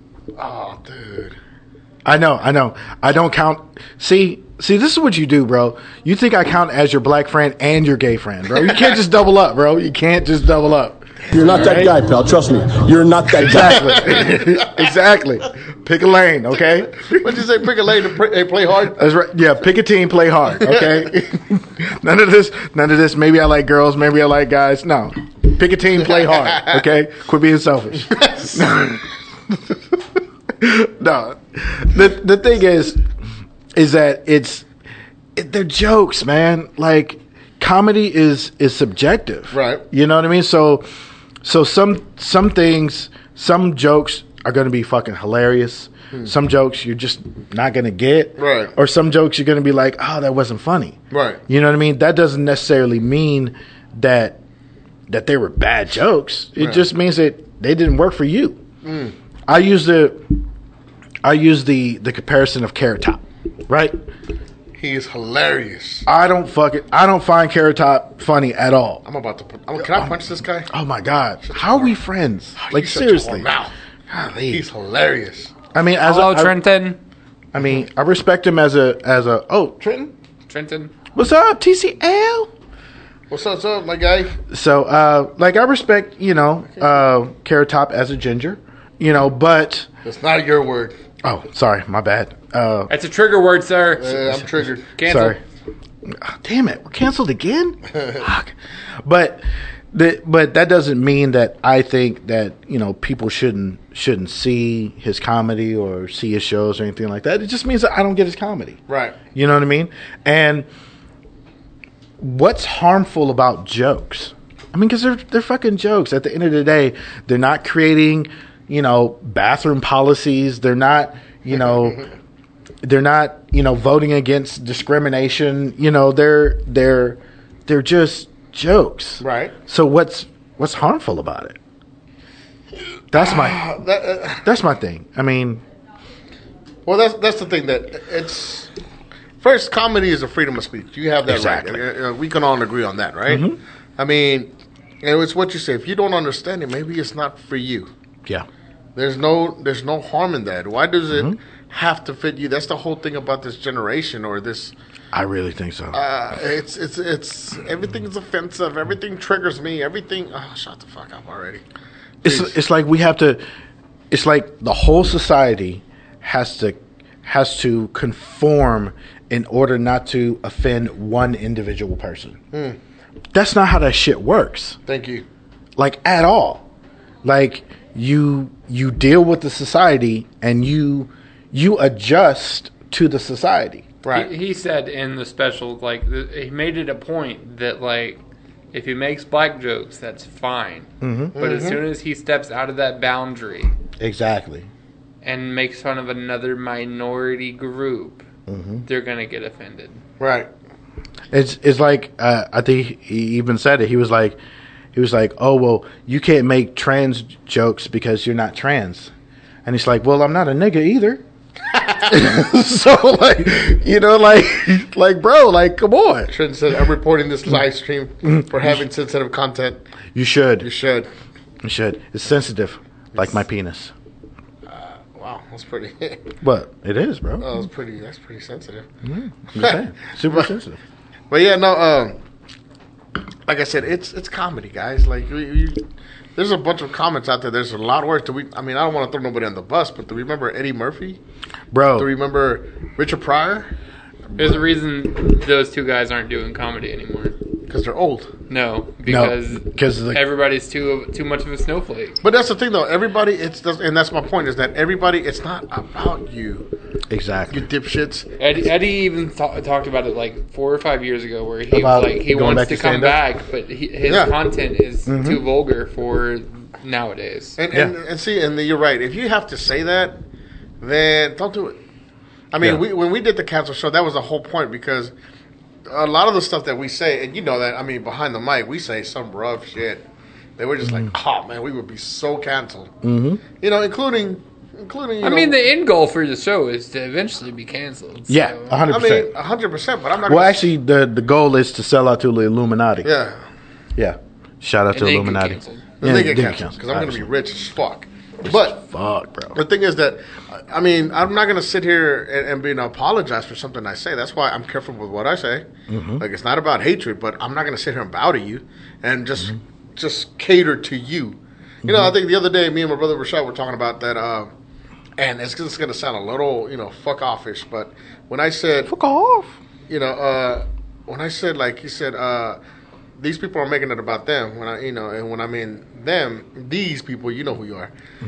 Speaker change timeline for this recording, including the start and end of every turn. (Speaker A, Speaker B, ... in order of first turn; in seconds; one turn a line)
Speaker A: 0.4-1.4
Speaker B: 2.0-12.0
Speaker C: 11.3-13.9
Speaker B: 13.3-17.3
Speaker A: 13.6-14.8
Speaker A: 16.9-19.0
Speaker B: 18.9-29.8
Speaker A: 20.6-21.1
Speaker A: 26.5-26.8
Speaker A: 28.1-28.6
Speaker B: 30.6-33.0
Speaker B: 33.7-34.7
Speaker B: 35.3-40.8
Speaker A: 39.5-39.8
Speaker B: 41.4-54.4
Speaker A: 48.4-48.7
Speaker A: 51.1-51.4
Speaker B: 55.1-58.6
Speaker A: 56.6-56.9
Speaker A: 58.8-59.1
Speaker B: 59.5-60.2
Speaker B: 61.2-64.0
Speaker A: 64.8-66.0
Speaker B: 66.0-69.0
Speaker A: 69.0-70.7
Speaker B: 69.8-73.5
Speaker A: 71.4-72.0
Speaker A: 72.5-73.7
Speaker B: 74.1-74.6
Speaker A: 74.5-75.5
Speaker B: 75.7-76.6
Speaker D: 76.0-77.0
Speaker B: 77.5-80.1
Speaker D: 80.5-80.9
Speaker B: 81.1-82.5
Speaker A: 83.3-84.3
Speaker B: 84.5-89.9
Speaker A: 90.0-91.0
Speaker B: 91.2-92.9
Speaker D: 92.9-95.3
Speaker A: 94.0-94.9
Speaker B: 95.0-95.4
Speaker B: 96.0-108.8
Speaker A: 108.9-109.2
Speaker B: 109.3-110.7
Speaker B: 112.2-122.0
Speaker B: 122.8-131.6
Speaker A: 129.2-129.5
Speaker B: 133.1-133.7
Speaker A: 133.2-134.4
Speaker B: 134.4-135.6
Speaker A: 136.8-138.7
Speaker A: 139.4-144.5
Speaker B: 141.3-141.8
Speaker B: 143.3-143.6
Speaker A: 145.0-147.9
Speaker A: 148.9-154.7
Speaker B: 151.1-151.4
Speaker B: 155.1-156.0
Speaker A: 155.9-161.6
Speaker A: 162.2-162.5
Speaker B: 162.2-163.4
Speaker B: 164.1-172.4
Speaker A: 172.5-172.8
Speaker B: 173.3-174.8
Speaker A: 174.9-175.2
Speaker B: 175.8-176.7
Speaker B: 177.2-183.8
Speaker A: 184.0-184.3
Speaker D: 184.1-188.2
Speaker D: 188.7-193.7
Speaker B: 191.0-191.3
Speaker A: 191.3-191.8
Speaker B: 194.0-194.7
Speaker D: 195.2-198.2
Speaker B: 198.5-198.8
Speaker D: 198.8-200.0
Speaker A: 200.2-200.5
Speaker B: 201.3-204.4
Speaker B: 204.9-209.1
Speaker B: 209.6-211.2
Speaker A: 211.7-212.1
Speaker B: 212.1-216.3
Speaker A: 216.3-219.8
Speaker B: 218.2-218.8
Speaker B: 220.1-220.7
Speaker A: 220.6-221.1
Speaker B: 221.6-223.9
Speaker A: 224.7-226.3
Speaker B: 226.4-227.5
Speaker A: 227.4-228.8
Speaker B: 229.0-230.8
Speaker A: 229.5-230.5
Speaker A: 231.3-232.2
Speaker A: 233.5-235.8
Speaker A: 236.3-241.2
Speaker B: 241.7-242.1
Speaker A: 241.9-243.7
Speaker D: 244.4-247.3
Speaker A: 247.7-248.3
Speaker D: 248.5-252.2
Speaker B: 249.1-250.2
Speaker A: 252.2-256.7
Speaker B: 257.1-257.7
Speaker A: 257.5-258.3
Speaker D: 258.4-267.6
Speaker B: 261.7-263.2
Speaker A: 264.1-264.3
Speaker B: 265.1-265.4
Speaker A: 267.6-270.2
Speaker A: 270.8-271.8
Speaker A: 272.5-275.1
Speaker B: 272.6-272.8
Speaker A: 275.9-280.0
Speaker A: 280.6-282.9
Speaker B: 283.0-283.4
Speaker A: 283.6-285.6
Speaker D: 285.2-288.8
Speaker B: 288.3-289.3
Speaker A: 288.9-290.7
Speaker B: 290.2-293.1
Speaker A: 293.0-293.4
Speaker B: 293.9-297.3
Speaker D: 294.9-295.9
Speaker A: 296.0-298.8
Speaker B: 298.4-299.6
Speaker A: 299.5-305.6
Speaker B: 305.9-306.2
Speaker A: 306.2-314.5
Speaker B: 311.8-312.1
Speaker A: 315.2-318.9
Speaker B: 318.9-319.5
Speaker A: 319.9-322.6
Speaker A: 323.2-327.9